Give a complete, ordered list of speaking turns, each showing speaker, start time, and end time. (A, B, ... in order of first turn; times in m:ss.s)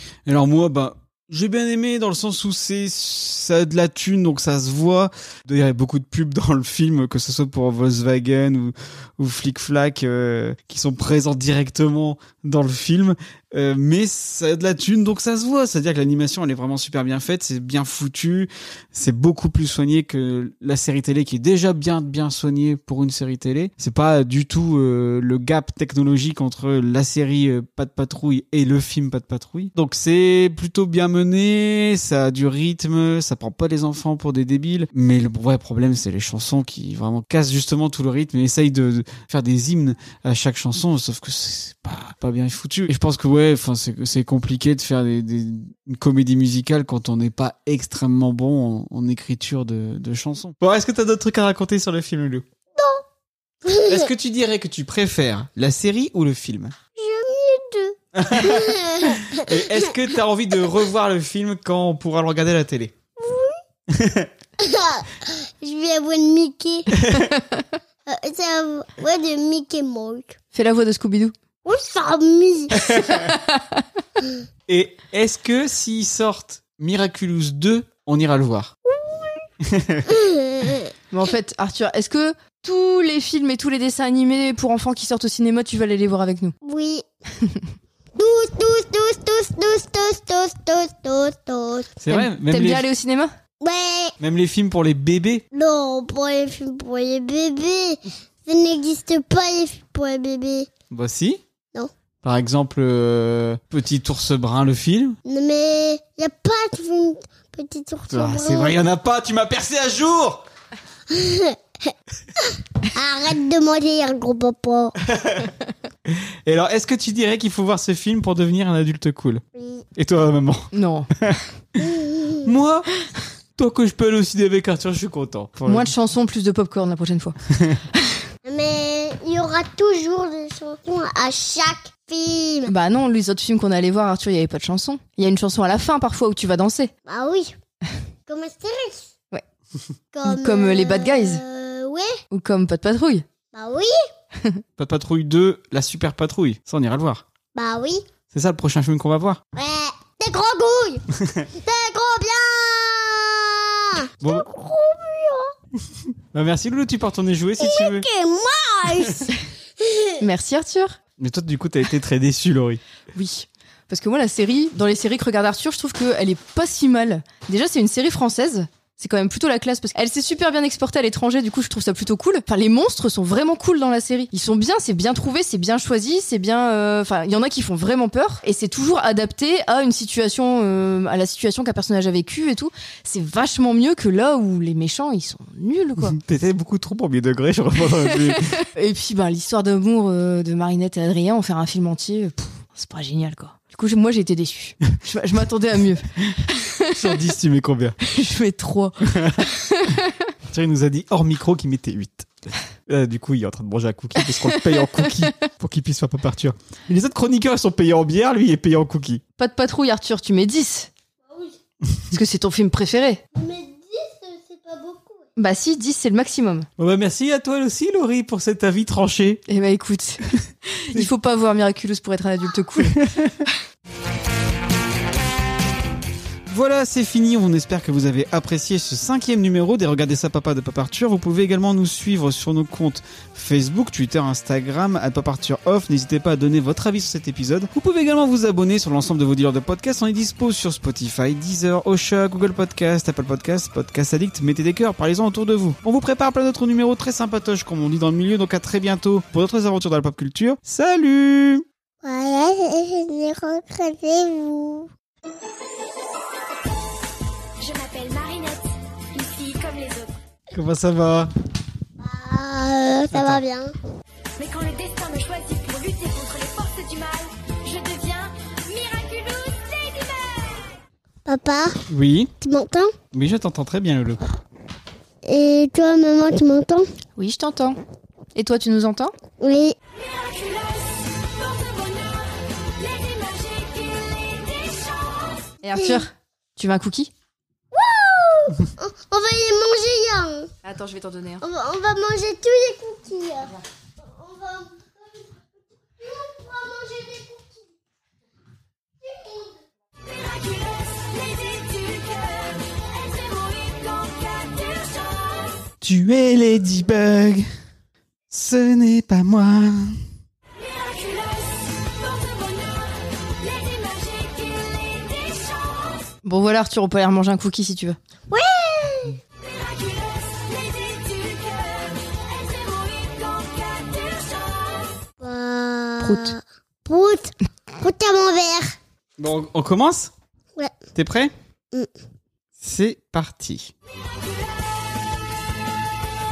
0:00.2-0:52.4 A
0:52.8-0:53.0 B
0:53.7-0:54.1 B
0:53.9-0:56.7 A
0:57.0-0:59.5 B
0:58.2-1:02.9 A
1:03.2-1:03.6 B
1:03.9-1:04.3 A
1:04.6-1:06.9 B
1:06.9-1:07.3 A
1:08.1-1:10.4 B
1:10.5-1:11.3 C
1:11.6-1:12.9 B
1:12.8-1:13.2 A
1:13.1-1:13.8 C
1:14.7-1:18.7 A
1:18.9-1:19.4 B
1:19.6-1:20.1 A
1:20.1-1:20.9 B
1:21.1-1:26.5 C
1:26.6-1:27.0 B
1:28.2-1:31.9 B
1:32.0-1:32.8 A
1:32.1-1:33.3 C
1:33.6-1:34.1 B
1:34.2-1:35.4 A
1:35.5-1:40.7 B
1:40.9-1:41.4 A
1:42.2-1:45.2 A
1:45.2-1:48.8 B
1:48.1-1:50.4 A
1:51.1-1:51.9 B
1:52.5-1:55.0 B
1:55.0-1:55.5 A
1:56.1-1:59.4 A
1:59.6-1:59.9 B
2:00.0-2:01.5 A
2:00.7-2:01.1 C
2:01.8-2:02.5 B
2:02.4-2:02.9 A
2:03.6-2:05.9 A
2:05.7-2:07.4 C
2:08.4-2:12.7 B
2:12.7-2:16.9 C
2:17.1-2:17.5 B
2:18.3-2:19.1 B
2:20.1-2:22.2 B
2:20.2-2:21.4 C
2:22.3-2:23.2 C
2:23.5-2:24.0 B
2:24.8-2:27.2 A
2:27.5-2:28.0 B
2:28.3-2:29.4 A
2:29.5-2:31.0 B
2:31.2-2:31.5 A
2:31.6-2:35.5 B
2:36.0-2:38.0 A
2:37.6-2:40.2 B
2:40.2-2:41.0 C
2:41.2-2:42.8 A
2:43.1-3:06.2 C
3:06.1-3:08.6 A
3:08.3-3:17.2 C
3:16.9-3:18.0 A
3:18.0-3:20.1 C
3:19.1-3:19.4 A
3:20.5-3:22.3 A
3:22.9-3:29.2 A
3:24.2-3:25.3 C
3:29.4-3:30.9 C
3:32.1-3:33.2 C
3:33.4-3:35.3 B
3:35.4-3:36.7 C
3:36.8-3:39.4 A
3:39.5-3:43.0 C
3:42.8-3:43.4 A
3:46.5-4:11.6 A
4:12.0-4:14.9 B
4:17.6-4:18.6 D
4:19.1-4:20.1 D
4:20.5-4:21.3 A
4:22.0-4:23.7 B
4:23.1-4:23.4 A
4:24.4-4:30.7 D
4:31.2-4:31.8 B
4:31.9-4:32.3 A
4:32.4-4:32.9 B
4:33.1-4:34.2 A
4:35.2-4:36.9 B
4:37.2-4:37.8 C
4:38.4-4:39.1 C
4:39.4-4:39.8 B
4:43.2-4:43.6 D
4:45.6-4:47.1 C
4:45.8-4:46.0 B
4:47.7-4:50.5 B
4:50.6-4:51.4 C
4:51.4-4:55.4 B
4:56.0-4:57.7 B
4:59.0-4:59.6 B
5:05.8-5:07.5 A
5:08.3-5:10.0 A
5:13.7-5:15.8 D
5:16.2-5:18.0 C
5:18.3-5:19.2 B
5:22.8-5:24.2 D
5:25.2-5:28.8 B
5:26.0-5:26.3 C
5:29.2-5:30.1 A
5:31.0-5:31.3 A
5:32.6-5:33.7 A